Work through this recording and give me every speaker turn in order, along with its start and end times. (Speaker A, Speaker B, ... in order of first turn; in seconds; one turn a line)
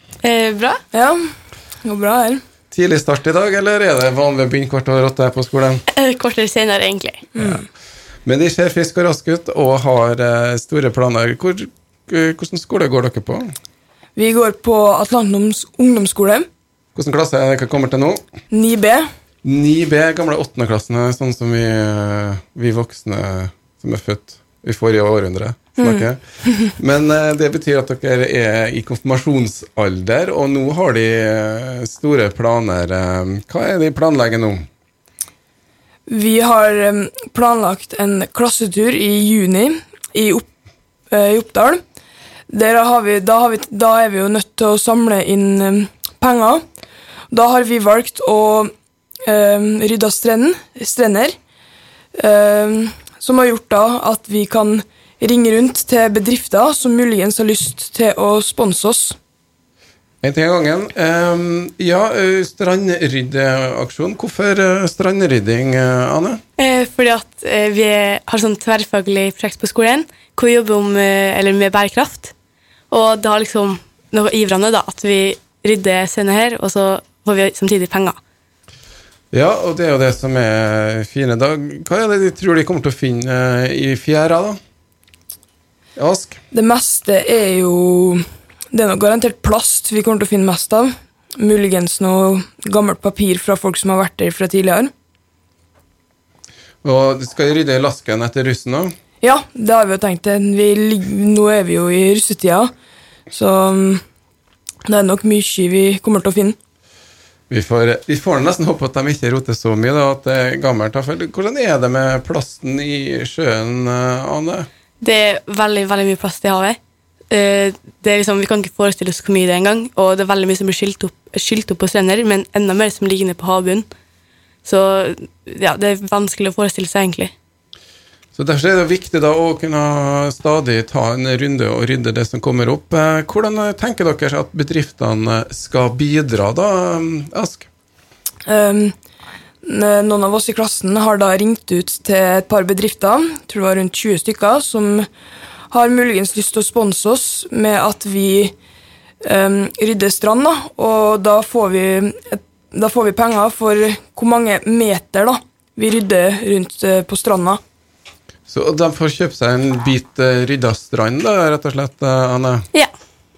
Speaker A: 0.2-0.8
Speaker B: 0.9-1.3
Speaker B: 1.8-2.4
Speaker C: 2.7-5.8
Speaker A: 5.9-7.2
Speaker B: 7.3-7.6
Speaker C: 8.2-13.5
Speaker B: 14.2-16.4
Speaker C: 16.9-18.2
Speaker B: 18.5-19.1
Speaker C: 19.4-34.6
Speaker B: 36.1-40.4
Speaker B: 41.1-41.8
Speaker B: 42.5-46.6
Speaker B: 47.3-48.7
Speaker B: 49.2-51.3
Speaker B: 52.1-59.2
Speaker C: 60.2-66.4
Speaker A: 66.6-72.3
Speaker A: 72.9-78.2
Speaker C: 79.3-84.6
Speaker C: 86.0-86.4
Speaker B: 86.5-94.9
Speaker C: 96.8-98.9
Speaker B: 99.2-102.7
Speaker B: 103.3-104.0
Speaker B: 104.8-106.5
Speaker C: 107.5-114.7
Speaker A: 115.0-116.8
Speaker A: 117.3-123.9
Speaker A: 124.6-127.3
Speaker C: 128.3-137.7
Speaker B: 138.4-138.9
Speaker B: 139.6-145.1
Speaker B: 145.7-148.5
Speaker B: 149.2-157.6
Speaker C: 158.5-162.6